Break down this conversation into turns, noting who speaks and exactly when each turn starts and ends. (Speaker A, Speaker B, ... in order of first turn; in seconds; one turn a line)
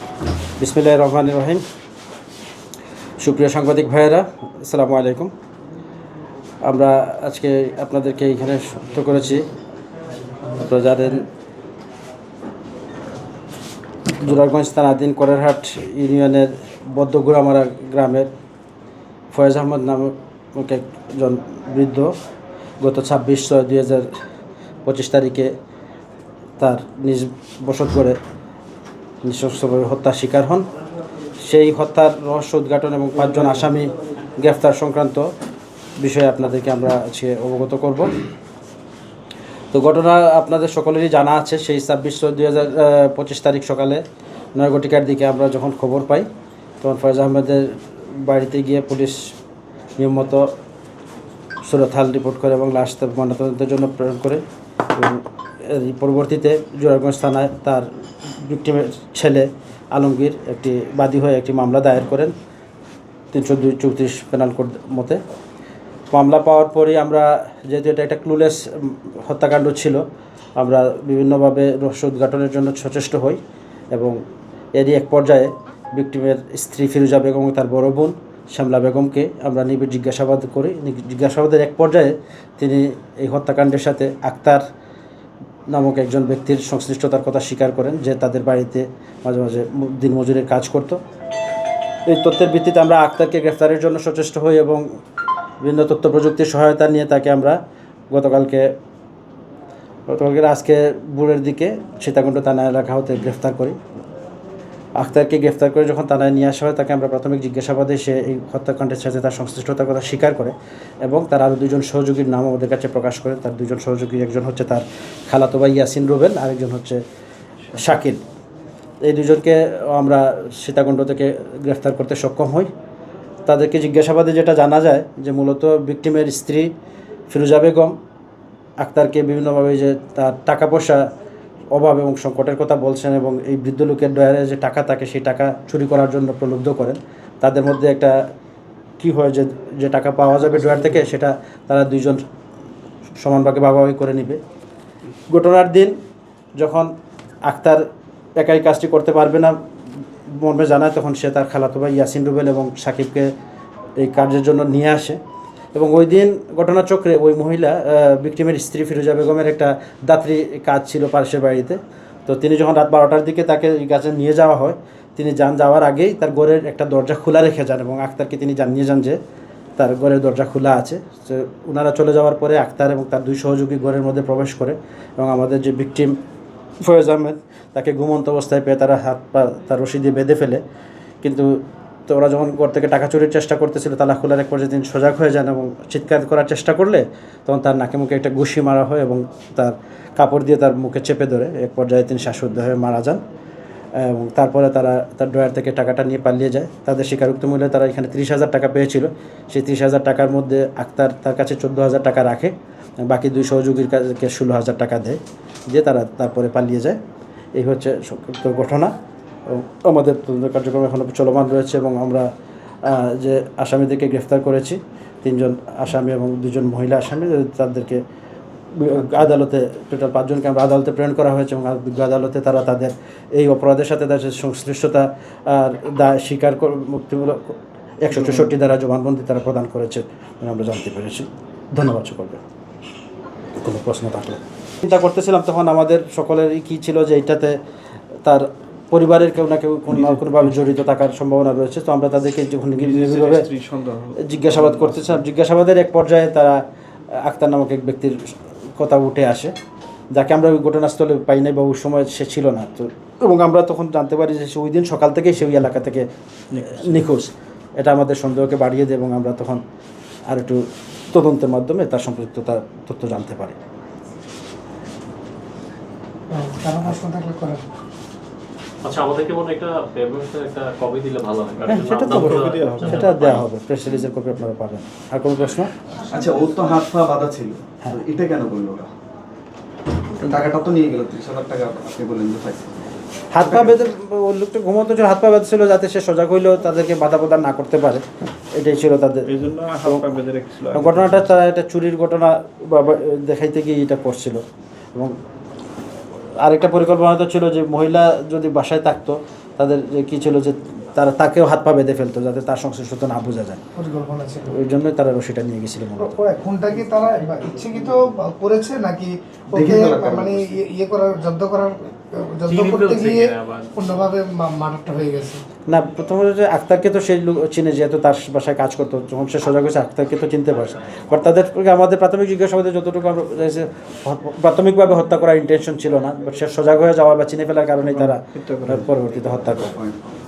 Speaker A: 0.6-1.6
Speaker A: 3.2-5.3
Speaker A: 6.7-9.4
Speaker A: 10.6-11.2
Speaker A: 14.2-18.3
Speaker A: 19.3-22.1
Speaker A: 22.8-24.1
Speaker A: 24.9-25.5
Speaker A: 26.6-28.2
Speaker A: 29.2-30.6
Speaker A: 31.4-35.2
Speaker A: 36.0-38.1
Speaker A: 39.7-44.0
Speaker A: 44.6-46.3
Speaker A: 46.8-49.2
Speaker A: 50.0-50.5
Speaker A: 51.7-54.4
Speaker A: 55.0-62.3
Speaker A: 63.3-65.2
Speaker A: 66.1-70.0
Speaker A: 70.6-73.4
Speaker A: 74.8-84.6
Speaker A: 85.7-91.0
Speaker A: 92.1-94.8
Speaker A: 95.6-97.6
Speaker A: 98.1-98.7
Speaker A: 100.1-103.8
Speaker A: 105.0-117.0
Speaker A: 117.8-118.2
Speaker A: 119.1-122.7
Speaker A: 123.5-126.7
Speaker A: 127.3-128.0
Speaker A: 128.8-131.0
Speaker A: 131.7-138.2
Speaker A: 139.0-142.2
Speaker A: 143.2-144.4
Speaker A: 145.3-145.9
Speaker A: 146.6-146.9
Speaker A: 147.5-147.8
Speaker A: 148.4-149.6
Speaker A: 150.4-153.3
Speaker A: 154.0-155.2
Speaker A: 155.8-169.2
Speaker A: 169.8-176.2
Speaker A: 176.8-180.6
Speaker A: 181.2-181.5
Speaker A: 182.1-193.2
Speaker A: 194.0-202.5
Speaker A: 203.1-207.0
Speaker A: 207.6-208.9
Speaker A: 209.5-212.3
Speaker A: 212.8-218.0
Speaker A: 218.8-232.4
Speaker A: 233.6-237.6
Speaker A: 238.2-243.5
Speaker B: 242.8-245.2
Speaker A: 244.2-246.6
Speaker A: 247.2-249.5
Speaker A: 250.1-256.1
Speaker B: 256.5-257.1
Speaker A: 256.7-259.6
Speaker A: 260.3-263.6
Speaker C: 266.3-267.6
Speaker D: 268.8-273.4
Speaker A: 271.7-275.7
Speaker B: 272.1-273.1
Speaker E: 276.1-278.9
Speaker E: 280.2-282.9
Speaker A: 283.3-288.0
Speaker B: 283.4-283.8
Speaker A: 288.6-289.3
Speaker B: 289.3-291.3
Speaker A: 289.8-290.1
Speaker A: 290.7-294.4
Speaker A: 296.4-303.6
Speaker C: 303.8-304.5
Speaker A: 304.5-306.2
Speaker C: 306.0-315.4
Speaker E: 309.5-310.5
Speaker D: 312.5-313.8
Speaker A: 315.7-329.8
Speaker B: 327.8-329.0
Speaker E: 329.3-330.1